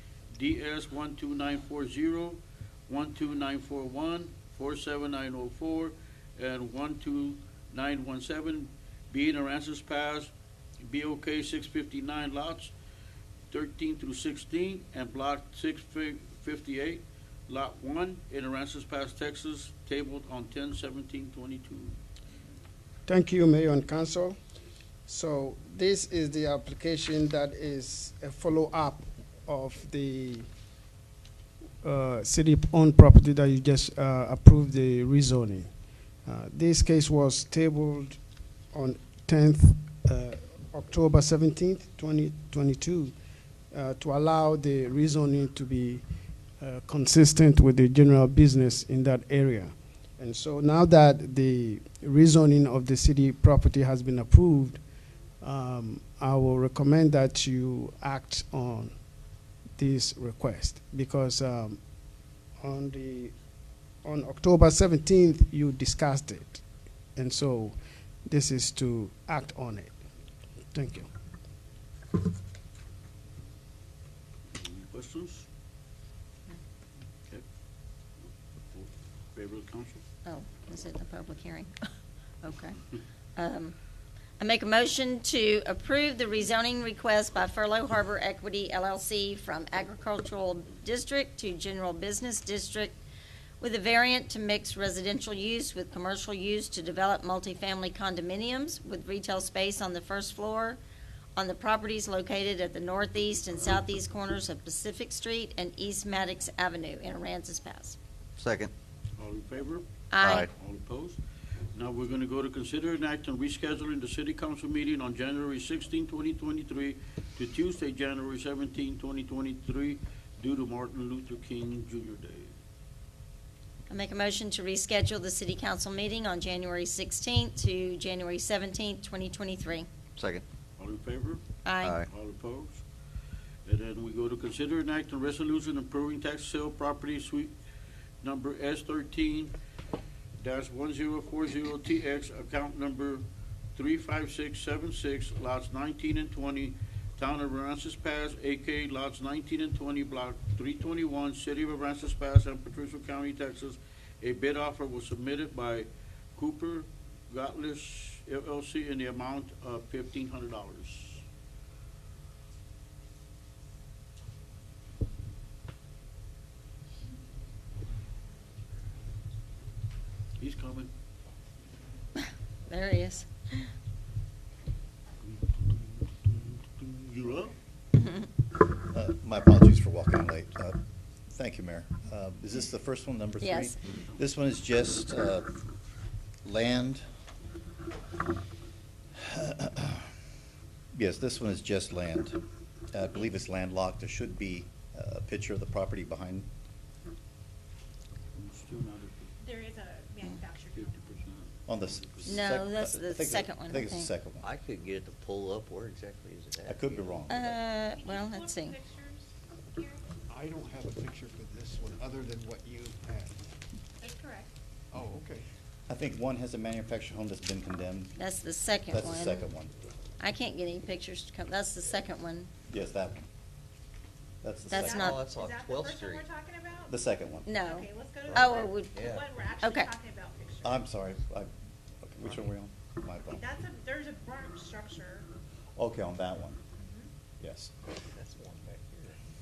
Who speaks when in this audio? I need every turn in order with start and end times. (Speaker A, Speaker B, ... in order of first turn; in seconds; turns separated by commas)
Speaker A: 0.3-10.3, Speaker A: 10.8-12.7, Speaker A: 13.5-22.0, Speaker B: 23.1-24.4, Speaker B: 25.1-30.5, Speaker B: 31.8-35.7, Speaker B: 36.2-38.2, Speaker B: 38.7-43.1, Speaker B: 43.7-46.0, Speaker B: 46.6-54.8, Speaker B: 55.4-59.0, Speaker B: 59.8-61.8, Speaker B: 62.6-63.3, Speaker B: 64.0-66.6, Speaker B: 67.2-69.9, Speaker B: 70.7-71.1, Speaker A: 74.5-75.5, Speaker A: 78.2-80.0, Speaker C: 80.2-81.9, Speaker C: 82.4-82.8, Speaker C: 83.4-83.8, Speaker C: 84.4-93.0, Speaker C: 93.6-100.8, Speaker C: 101.4-108.0, Speaker D: 108.4-108.7, Speaker A: 109.2-111.2, Speaker C: 110.1-110.5, Speaker D: 110.2-110.5, Speaker A: 111.7-122.5, Speaker C: 123.9-129.9, Speaker D: 130.2-130.4, Speaker A: 130.8-132.8, Speaker C: 131.6-132.0, Speaker D: 131.8-132.1, Speaker A: 133.6-137.5, Speaker A: 138.2-139.5, Speaker A: 140.4-143.2, Speaker A: 143.8-161.2, Speaker A: 170.4-170.9, Speaker C: 172.2-173.7, Speaker A: 175.3-177.5, Speaker C: 177.9-178.3, Speaker E: 178.9-180.8, Speaker E: 181.3-185.5, Speaker C: 183.4-183.8, Speaker E: 186.4-187.0, Speaker E: 189.2-190.1, Speaker E: 190.9-192.4, Speaker E: 192.9-196.5, Speaker A: 198.3-199.3, Speaker F: 199.4-201.3, Speaker A: 200.7-202.5, Speaker E: 201.7-204.4, Speaker C: 202.2-204.1, Speaker D: 204.4-207.2, Speaker E: 206.6-207.6, Speaker C: 207.3-208.8, Speaker F: 207.9-210.1, Speaker G: 210.3-213.3, Speaker B: 211.8-213.2, Speaker F: 214.0-214.5, Speaker B: 215.0-215.3, Speaker E: 215.9-218.1, Speaker C: 218.2-219.4, Speaker E: 218.9-219.7, Speaker C: 220.2-222.5, Speaker E: 222.7-223.2, Speaker E: 224.4-225.2, Speaker C: 224.7-225.2, Speaker F: 224.7-226.9, Speaker D: 224.9-226.2, Speaker E: 226.9-227.5, Speaker C: 227.4-229.0, Speaker F: 227.6-230.9, Speaker D: 228.3-229.3, Speaker C: 229.6-229.9, Speaker E: 230.6-231.5, Speaker E: 232.0-233.4, Speaker F: 233.3-235.3, Speaker E: 235.8-236.6, Speaker F: 236.8-237.1, Speaker E: 237.4-237.7, Speaker D: 238.1-239.2